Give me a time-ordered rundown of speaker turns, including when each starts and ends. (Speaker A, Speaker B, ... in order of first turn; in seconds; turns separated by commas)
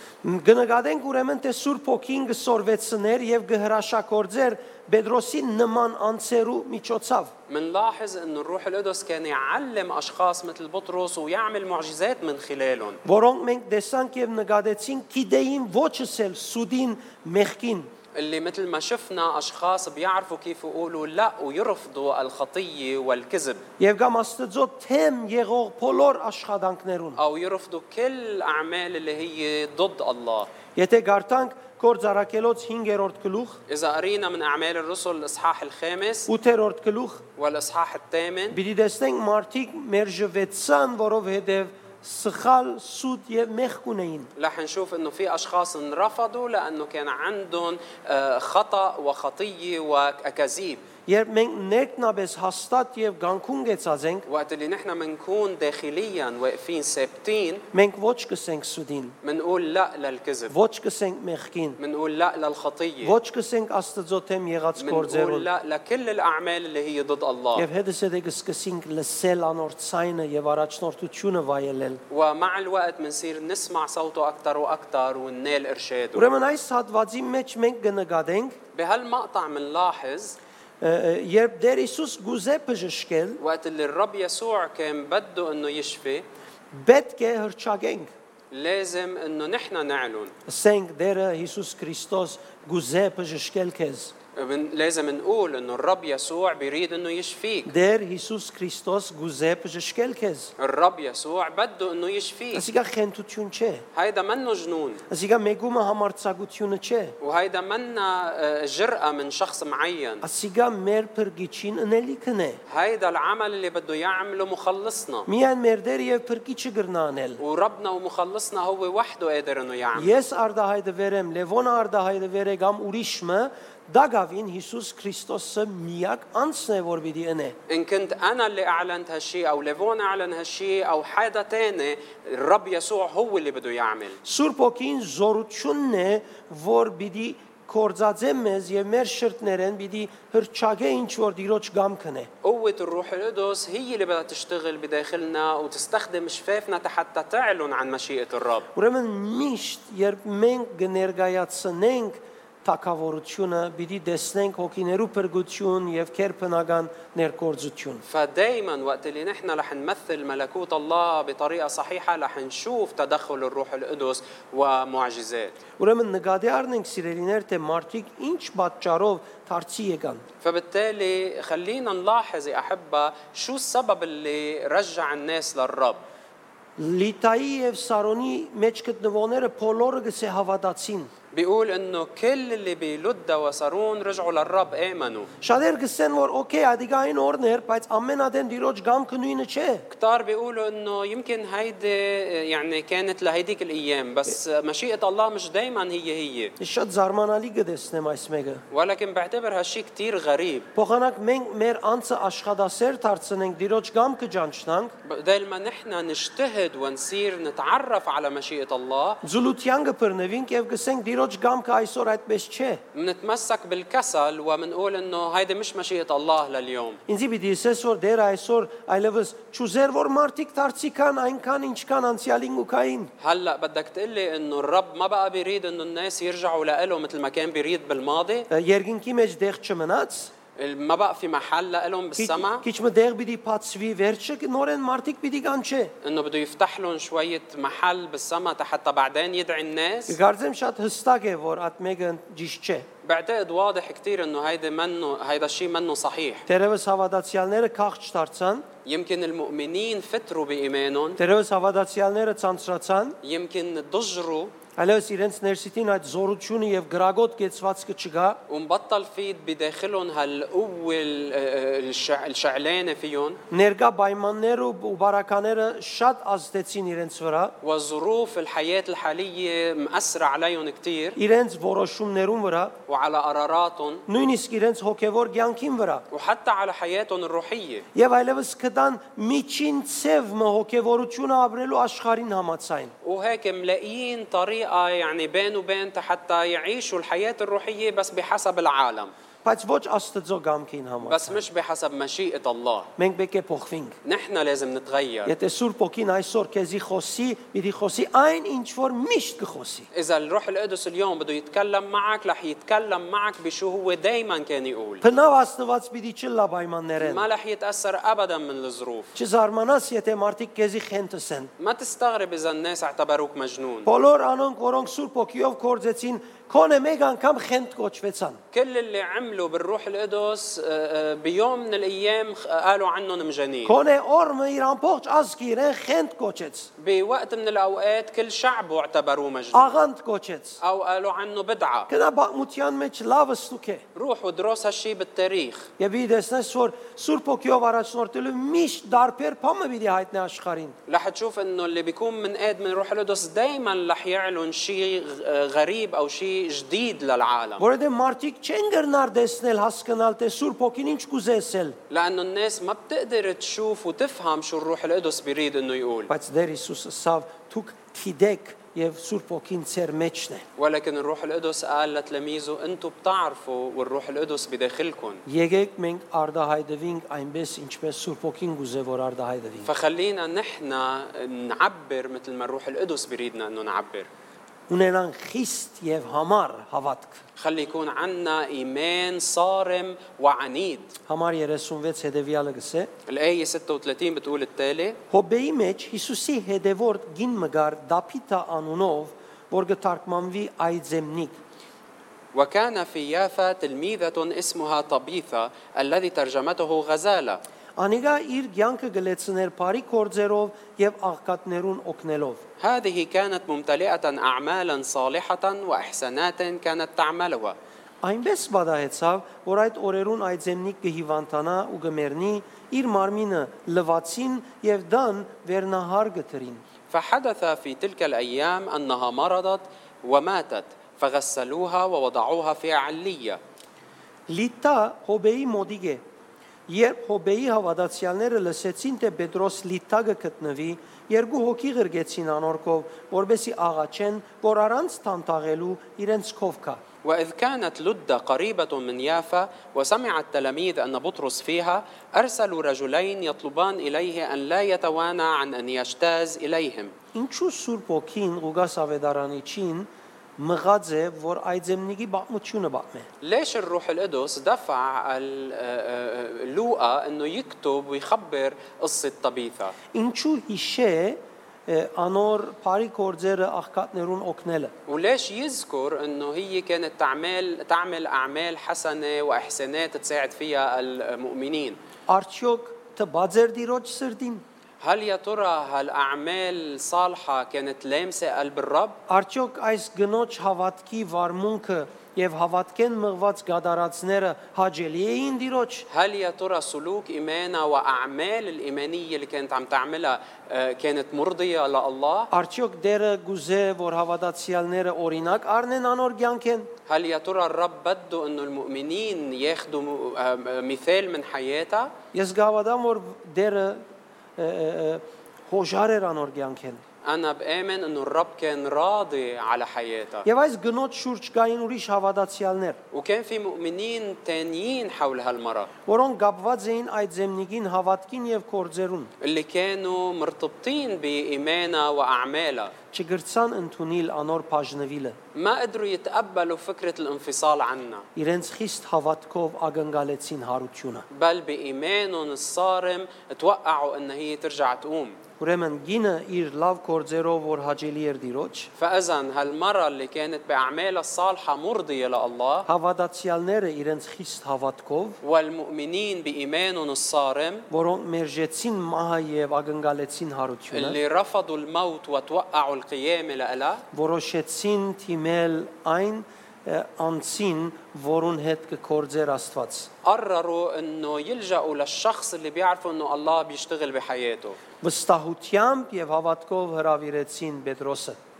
Speaker A: 0.2-7.3, Speaker B: 7.5-13.0, Speaker A: 13.0-17.9, Speaker B: 18.1-23.6, Speaker A: 23.8-27.2, Speaker B: 27.2-30.5, Speaker A: 30.8-33.6, Speaker B: 33.7-36.3, Speaker A: 36.3-37.2, Speaker B: 37.4-38.6, Speaker A: 38.5-44.3, Speaker B: 44.4-50.8, Speaker A: 51.1-54.2, Speaker B: 54.3-57.6, Speaker A: 57.7-59.1, Speaker B: 59.2-60.5, Speaker A: 60.5-61.8, Speaker B: 61.8-63.1, Speaker A: 63.0-65.5, Speaker B: 64.8-67.7, Speaker A: 67.5-72.0, Speaker B: 72.1-76.3, Speaker A: 76.1-78.6, Speaker B: 78.7-80.4, Speaker A: 80.8-83.4, Speaker B: 83.4-86.2, Speaker A: 86.7-88.1, Speaker B: 88.5-90.3, Speaker A: 90.5-94.1, Speaker B: 94.3-97.7, Speaker A: 97.7-100.5, Speaker B: 100.6-102.7, Speaker A: 102.5-103.8, Speaker B: 103.9-105.0, Speaker A: 105.1-107.2, Speaker B: 107.2-110.2, Speaker A: 110.2-112.6, Speaker B: 112.7-115.3, Speaker A: 115.3-117.4, Speaker B: 117.4-120.2, Speaker A: 119.9-127.5, Speaker B: 127.7-134.2, Speaker A: 134.2-142.3, Speaker B: 142.4-148.7, Speaker A: 148.7-158.0, Speaker B: 158.1-165.6, Speaker A: 165.8-170.2, Speaker B: 170.4-176.0, Speaker A: 176.8-181.1, Speaker B: 181.3-185.3, Speaker A: 185.4-189.9, Speaker B: 189.9-196.5, Speaker A: 196.6-198.6, Speaker B: 198.7-200.7, Speaker A: 200.7-204.9, Speaker B: 205.0-209.2, Speaker A: 209.2-212.8, Speaker B: 212.9-217.0, Speaker A: 217.1-223.1, Speaker B: 223.2-228.5, Speaker A: 228.5-230.3, Speaker B: 230.6-232.6, Speaker A: 232.2-235.9, Speaker B: 236.0-240.2, Speaker A: 240.1-242.9, Speaker B: 243.0-246.4, Speaker A: 246.5-248.7, Speaker B: 248.8-251.2, Speaker A: 251.2-253.2, Speaker B: 253.2-254.5, Speaker A: 254.8-258.4, Speaker B: 258.5-263.4, Speaker A: 263.5-267.5, Speaker B: 267.6-271.2, Speaker A: 271.1-272.8, Speaker B: 272.9-274.1, Speaker A: 274.1-276.0, Speaker B: 276.1-277.9, Speaker A: 277.9-282.9, Speaker B: 283.0-289.1, Speaker A: 289.4-291.4, Speaker B: 291.0-292.9, Speaker A: 293.0-293.9, Speaker B: 294.0-295.3, Speaker A: 295.2-299.9, Speaker B: 299.9-305.0, Speaker A: 305.0-307.2, Speaker B: 307.0-309.1, Speaker A: 309.1-311.5, Speaker B: 311.6-313.9, Speaker A: 313.8-318.4, Speaker B: 318.5-323.8, Speaker A: 323.6-326.7, Speaker B: 326.8-329.8, Speaker A: 329.5-330.6, Speaker B: 330.6-331.9, Speaker A: 331.9-333.8, Speaker B: 333.9-335.7, Speaker A: 335.8-340.8, Speaker B: 340.9-347.6, Speaker A: 347.6-351.8, Speaker B: 351.9-356.1, Speaker A: 356.1-360.4, Speaker B: 360.6-365.2, Speaker A: 365.2-369.7, Speaker B: 369.6-374.1, Speaker A: 374.7-377.2, Speaker B: 377.4-380.9, Speaker A: 381.1-382.9, Speaker B: 383.1-385.0, Speaker A: 385.1-391.4, Speaker B: 392.3-397.4, Speaker A: 397.8-402.4, Speaker B: 402.6-407.6, Speaker A: 408.0-416.6, Speaker B: 416.9-423.4, Speaker A: 424.3-426.0, Speaker A: 426.7-436.8, Speaker B: 437.0-446.9, Speaker A: 447.1-453.1, Speaker B: 453.2-459.7, Speaker A: 459.9-464.7, Speaker B: 464.9-471.8, Speaker A: 472.1-474.4, Speaker B: 474.8-479.0, Speaker A: 479.1-485.9, Speaker B: 485.9-492.3, Speaker A: 492.3-496.7, Speaker B: 496.9-501.9, Speaker A: 502.1-503.8, Speaker A: 504.4-506.8, Speaker B: 507.0-510.2, Speaker A: 510.2-512.8, Speaker B: 512.9-515.7, Speaker A: 515.9-519.1, Speaker B: 519.2-522.7, Speaker A: 522.9-525.1, Speaker B: 525.3-528.0, Speaker A: 528.1-531.0, Speaker B: 531.1-535.2, Speaker A: 535.4-538.7, Speaker B: 538.8-542.7, Speaker A: 542.6-545.2, Speaker B: 545.2-547.6, Speaker A: 547.7-551.0, Speaker B: 550.7-553.8, Speaker A: 553.9-559.9, Speaker B: 560.0-564.6, Speaker A: 564.8-568.2